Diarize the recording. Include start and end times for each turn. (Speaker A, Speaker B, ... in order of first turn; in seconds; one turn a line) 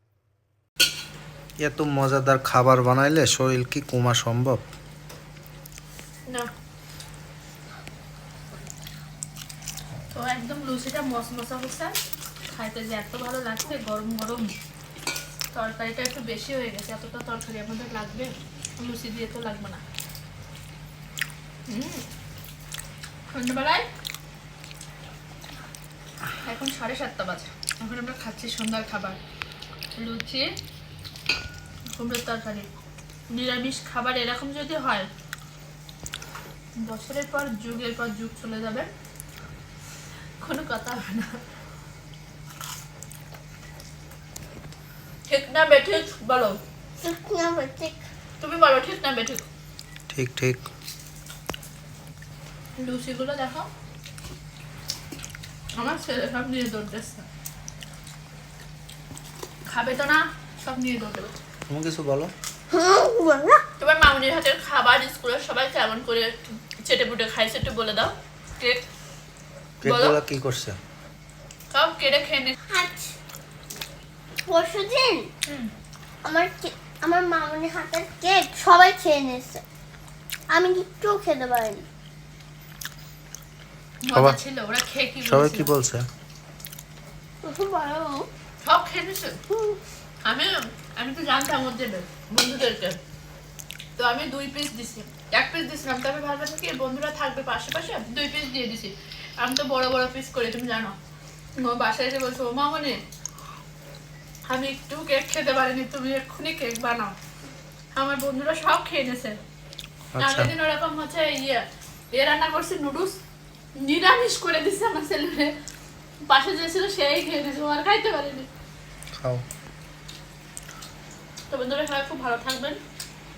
Speaker A: 1.6-4.6
Speaker B: 10.1-11.9
Speaker B: 12.5-14.5
Speaker B: 15.5-19.8
Speaker B: 21.7-22.0
Speaker B: 23.3-23.9
Speaker B: 26.4-29.2
Speaker B: 30.0-30.5
Speaker B: 31.9-32.7
Speaker B: 33.3-35.1
Speaker B: 36.8-38.9
Speaker B: 40.4-41.3
Speaker B: 45.3-46.6
Speaker C: 47.0-48.0
Speaker B: 48.4-49.4
Speaker A: 50.1-50.6
Speaker B: 52.8-53.7
Speaker B: 55.8-57.2
Speaker B: 59.7-61.3
Speaker A: 61.7-62.3
Speaker C: 62.7-63.6
Speaker B: 63.8-68.8
Speaker A: 69.8-70.8
Speaker B: 69.8-70.2
Speaker B: 71.7-72.5
Speaker C: 72.7-73.1
Speaker C: 74.5-75.3
Speaker C: 76.2-79.6
Speaker C: 80.5-81.8
Speaker B: 84.0-85.7
Speaker A: 85.2-86.0
Speaker C: 87.4-88.3
Speaker B: 88.6-89.4
Speaker C: 89.5-89.8
Speaker B: 90.2-93.0
Speaker B: 94.0-100.9
Speaker B: 101.6-103.0
Speaker B: 104.5-107.1
Speaker B: 107.9-109.4
Speaker A: 110.1-110.5
Speaker B: 110.2-113.2
Speaker B: 113.8-115.5
Speaker B: 116.3-118.5
Speaker B: 121.5-122.8